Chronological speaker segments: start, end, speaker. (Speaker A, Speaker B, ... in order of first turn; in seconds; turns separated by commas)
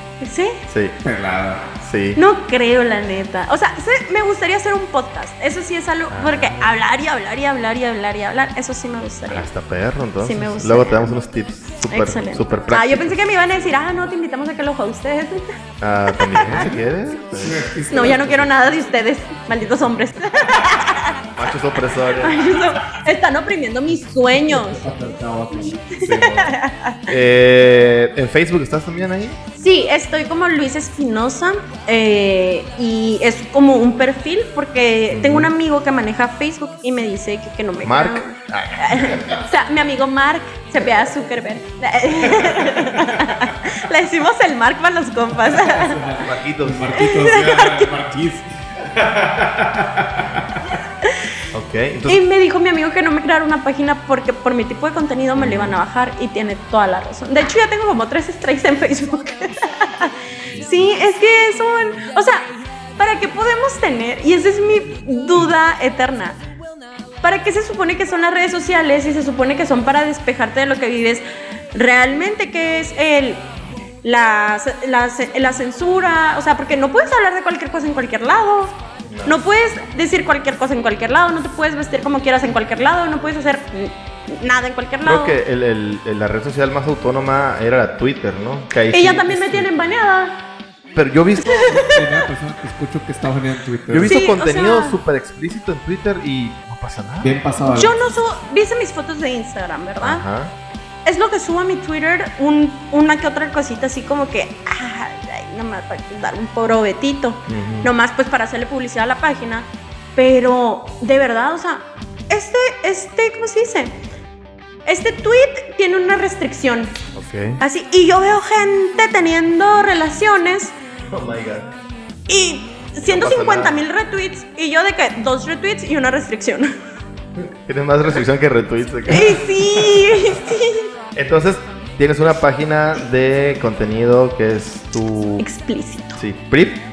Speaker A: 0.2-0.6, Speaker B: 0.7-1.0, Speaker C: 1.0-1.7, Speaker B: 1.8-2.2, Speaker A: 2.2-9.5, Speaker B: 6.1-6.8, Speaker B: 9.3-13.2, Speaker A: 10.2-11.1, Speaker A: 11.9-15.6, Speaker B: 15.8-17.7, Speaker A: 16.1-16.7, Speaker C: 17.3-18.6, Speaker A: 17.9-21.2, Speaker B: 21.4-22.5, Speaker A: 22.2-24.8, Speaker C: 24.5-26.1, Speaker A: 25.9-27.1, Speaker B: 26.0-26.6, Speaker B: 27.1-29.4, Speaker A: 29.6-46.2, Speaker B: 35.1-35.5, Speaker B: 37.8-39.4, Speaker C: 42.3-43.4, Speaker C: 45.5-50.8, Speaker B: 46.2-47.0, Speaker A: 46.9-47.9, Speaker A: 51.0-51.3, Speaker B: 51.5-52.2, Speaker A: 52.1-66.4, Speaker B: 55.4-55.8, Speaker A: 67.2-73.5, Speaker A: 74.0-85.4, Speaker B: 79.1-79.4, Speaker B: 85.0-89.7, Speaker A: 88.9-90.4, Speaker B: 91.0-91.8, Speaker A: 91.4-92.2, Speaker C: 91.7-94.2, Speaker B: 93.9-97.4, Speaker A: 94.0-95.0, Speaker C: 97.2-98.0, Speaker A: 97.6-100.2, Speaker B: 100.0-100.5, Speaker A: 101.0-114.0, Speaker B: 107.5-107.9, Speaker A: 114.9-117.0, Speaker B: 117.2-117.6, Speaker A: 117.6-120.8, Speaker B: 121.1-121.7, Speaker A: 122.3-126.7, Speaker B: 123.0-123.8, Speaker B: 127.5-129.6, Speaker A: 129.1-130.9, Speaker B: 131.2-135.5, Speaker A: 135.4-136.2, Speaker B: 136.2-136.8